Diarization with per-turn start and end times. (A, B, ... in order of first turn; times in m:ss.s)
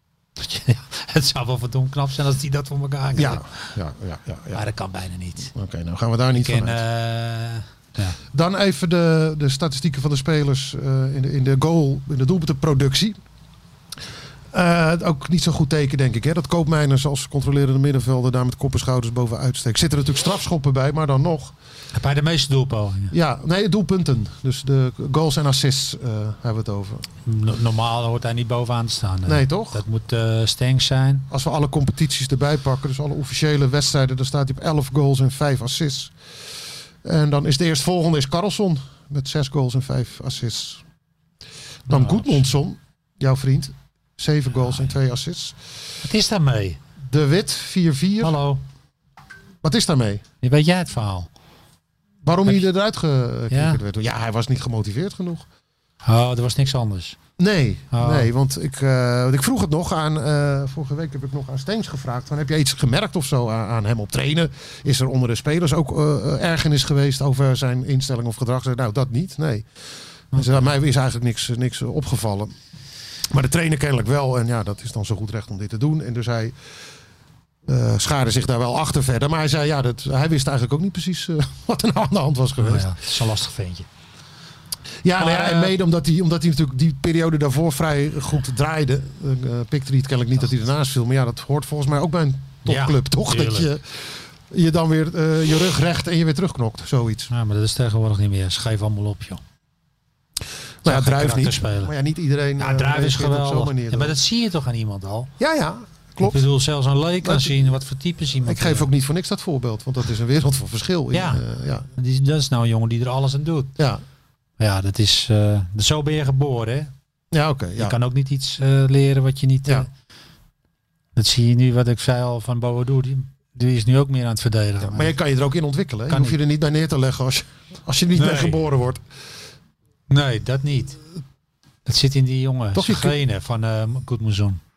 0:00.4-0:03.7 A
0:03.1-0:04.6 B
0:04.5-0:05.5 A
0:05.5-0:06.8 B
0:06.3-0:08.2 A
0:08.3-0:13.2 B
0:14.5-0:21.5 B
0:21.9-0:23.1 A
0:23.1-0:27.0 B
0:27.2-0:31.2 A
0:29.2-0:29.8 B
0:31.3-0:36.1 B
0:37.0-0:40.8 B
0:41.9-0:42.5 A
0:41.9-0:45.6 B
0:46.0-0:46.8 A
0:47.0-0:48.4 B
0:48.2-0:48.6 A
0:49.6-0:50.2 B
0:50.4-0:51.3 A
0:52.2-0:55.4 B
0:53.5-0:53.8 A
0:56.0-0:57.2 A
0:57.4-1:09.7 B
0:57.9-0:58.3 A
1:10.3-1:10.6 A
1:10.3-1:12.5 B
1:13.3-1:16.5 B
1:17.6-1:22.9 B
1:22.6-1:23.9 A
1:25.0-1:37.3 B
1:25.2-1:25.7 A
1:32.6-1:33.7 A
1:37.3-1:39.4 A
1:40.8-1:44.1 B
1:40.8-1:41.9 A
1:42.6-1:45.3 A
1:45.4-1:46.4 B
1:46.2-1:48.9 A
1:47.2-1:47.7 B
1:48.4-1:51.9 B
1:51.1-1:51.4 A
1:52.0-1:53.7 A
1:54.6-1:56.9 A
1:57.3-1:58.0 B
1:57.8-1:59.9 A
2:01.2-2:05.1 A
2:04.8-2:09.0 B
2:06.1-2:06.4 A
2:08.2-2:08.6 A
2:10.1-2:11.0 A
2:11.8-2:14.6 A
2:12.7-2:13.2 B